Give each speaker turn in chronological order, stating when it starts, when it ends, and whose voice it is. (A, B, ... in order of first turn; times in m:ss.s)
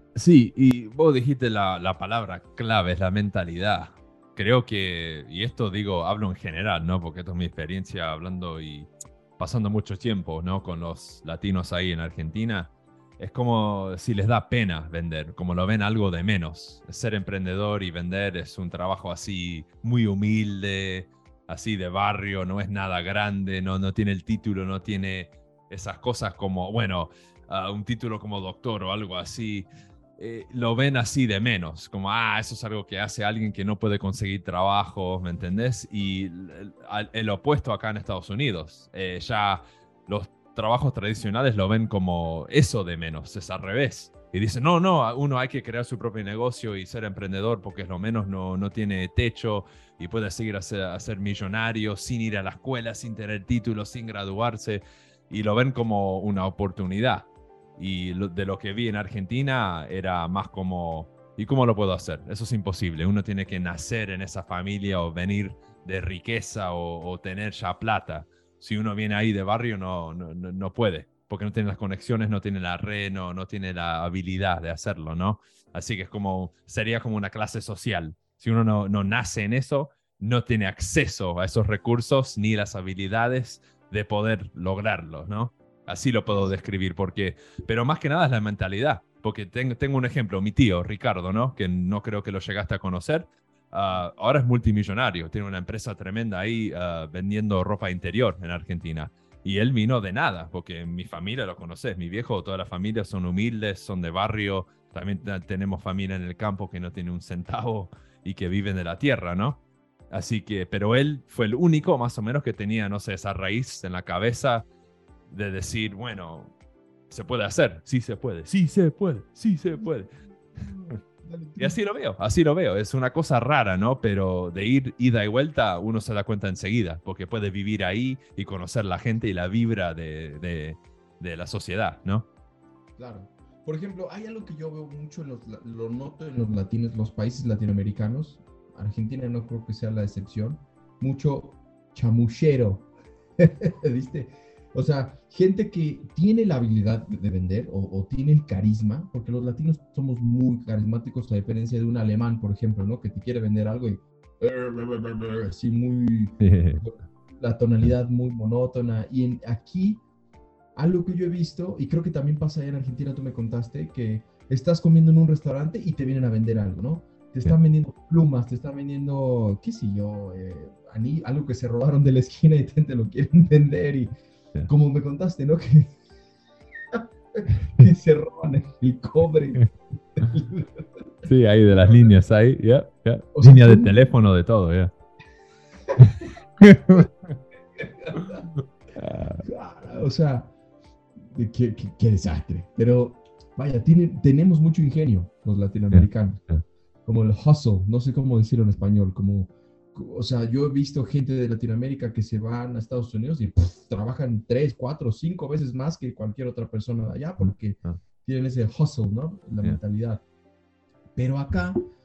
0:00.2-1:54.7 A
1:55.3-1:56.5 A
1:57.1-2:00.1 A
2:00.5-2:01.8 B
2:01.6-2:12.3 A
2:13.0-2:22.9 B
2:23.4-2:40.0 B
2:36.4-2:36.8 A
2:40.8-2:54.1 B
2:54.7-2:56.0 B
2:56.9-3:00.8 B
3:01.2-3:04.9 A
3:01.6-3:02.2 B
3:03.3-3:04.0 B
3:05.9-3:06.3 B
3:06.6-3:07.1 A
3:07.8-3:08.5 B
3:09.0-3:09.4 A
3:09.4-3:10.5 B
3:11.2-3:16.4 B
3:15.9-3:16.6 A
3:17.1-3:30.2 B
3:27.4-3:28.0 A
3:31.2-3:31.8 B